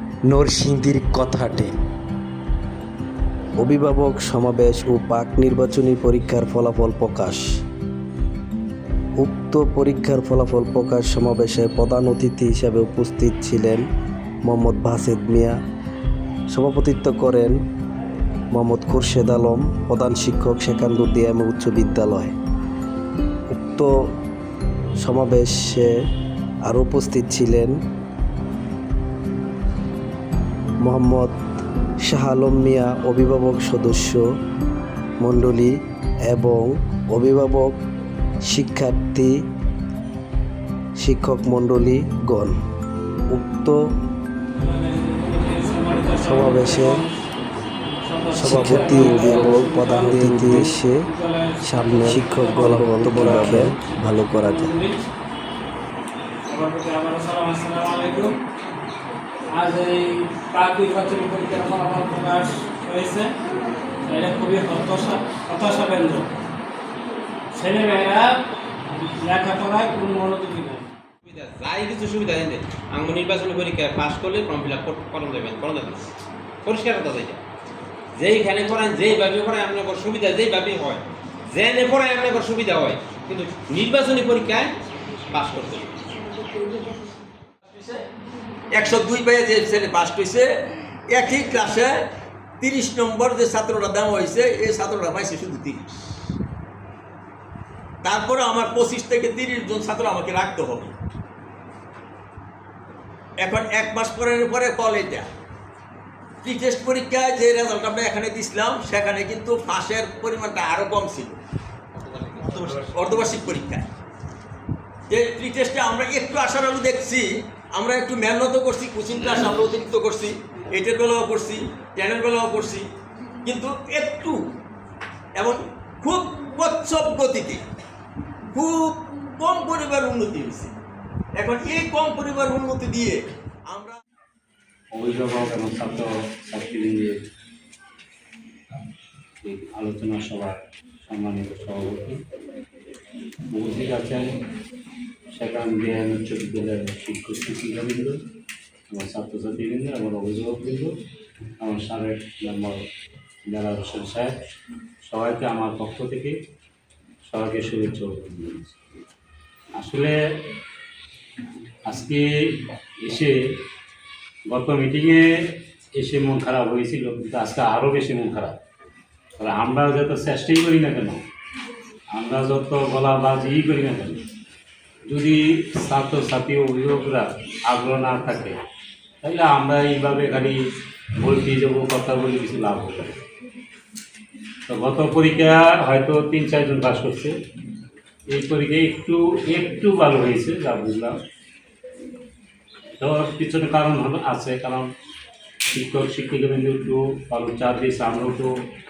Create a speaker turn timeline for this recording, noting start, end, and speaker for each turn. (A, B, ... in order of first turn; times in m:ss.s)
0:00.3-0:01.7 A
0:03.6-0:07.4 A
0:09.2-0:13.8 A
0:14.5-0:15.6 A
0:16.5-0:17.6 A
0:18.5-0:22.3 A
0:23.5-0:23.9 A
0:25.0-0:25.9 A
0:26.7-0:27.7 A
0:30.8-0:31.4 A
0:32.1-0:34.2 A
0:35.2-0:35.8 A
0:36.3-0:37.8 A
0:38.5-0:39.4 A
0:41.0-0:42.6 A
0:43.3-0:43.8 A
0:44.6-0:47.2 B
0:46.2-0:47.0 A
0:48.0-0:55.0 B
0:48.4-0:51.0 A
0:51.6-0:54.7 A
0:56.5-0:58.4 B
0:59.5-1:03.4 B
1:04.0-1:06.3 B
1:07.5-1:08.4 B
1:09.0-1:10.9 B
1:11.2-1:16.1 C
1:16.6-1:17.4 C
1:18.2-1:24.8 C
1:25.3-1:25.9 C
1:27.6-1:28.0 D
1:28.7-1:30.5 D
1:31.1-1:32.0 D
1:32.6-1:36.0 D
1:38.0-1:41.0 D
1:43.4-1:45.3 D
1:46.4-1:51.4 D
1:51.9-1:53.0 C
1:52.5-1:53.9 D
1:55.1-2:02.9 D
1:59.2-1:59.6 C
2:03.4-2:04.4 D
2:05.4-2:07.6 D
2:08.5-2:10.7 D
2:11.4-2:14.0 D
2:14.9-2:17.2 E
2:19.4-2:22.2 E
2:23.5-2:24.4 E
2:25.3-2:28.2 E
2:28.9-2:31.0 E
2:31.6-2:32.8 E
2:33.5-2:34.3 E
2:35.0-2:36.4 E
2:37.2-2:38.8 E
2:39.8-2:40.2 E
2:41.8-2:43.4 E
2:44.5-2:48.6 E
2:49.4-2:51.2 E
2:52.1-2:54.2 E
2:55.1-2:58.6 E
2:59.2-3:00.6 E
3:01.2-3:03.2 E
3:04.7-3:07.4 E
3:08.3-3:11.2 E
3:13.0-3:14.9 E
3:15.7-3:18.6 E